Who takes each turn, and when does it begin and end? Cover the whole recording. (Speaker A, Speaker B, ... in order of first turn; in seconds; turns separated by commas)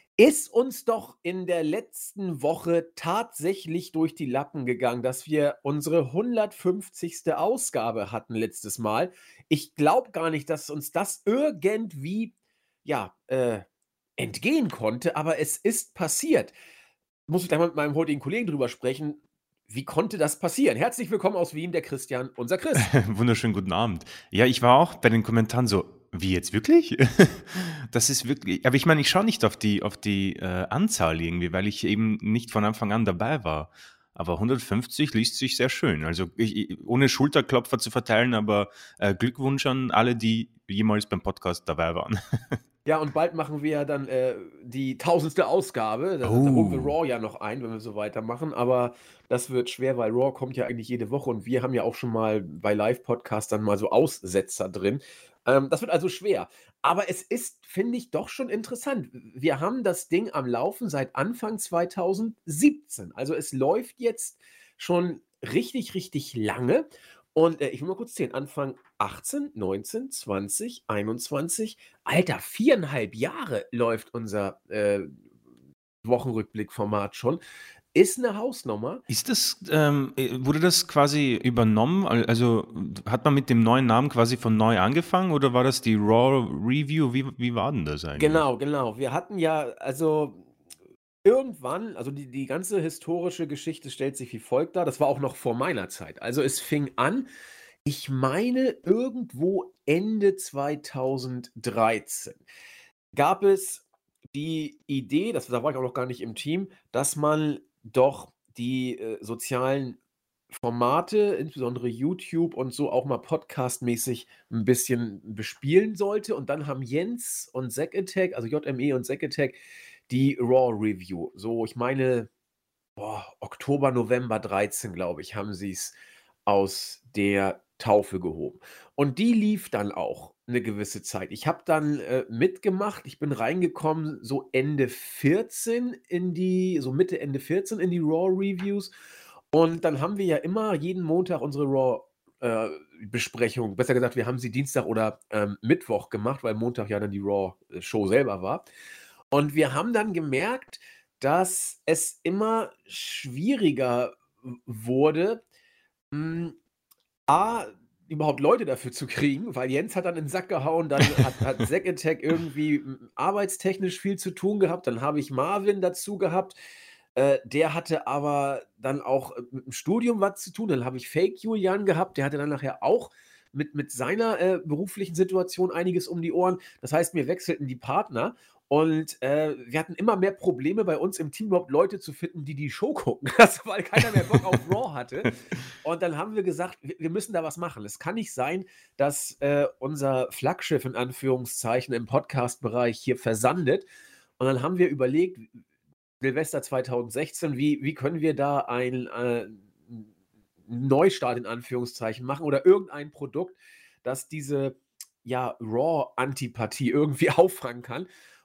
Speaker A: 0.2-12.3, Speaker A: 12.8-13.7, Speaker A: 14.2-16.5, Speaker A: 17.3-22.9, Speaker B: 22.8-42.6, Speaker A: 42.9-75.1, Speaker B: 46.2-47.0, Speaker A: 76.0-77.4, Speaker A: 78.0-79.0, Speaker B: 79.1-88.5, Speaker A: 88.2-90.5, Speaker A: 91.2-97.3, Speaker A: 97.8-102.4, Speaker A: 103.1-110.0, Speaker A: 110.5-122.3, Speaker A: 123.0-138.9, Speaker A: 139.5-148.6, Speaker A: 149.3-155.4, Speaker A: 156.1-156.6, Speaker A: 157.3-166.6, Speaker A: 167.2-193.8, Speaker B: 184.2-184.4, Speaker A: 194.4-195.6, Speaker A: 196.2-200.1, Speaker A: 200.7-208.1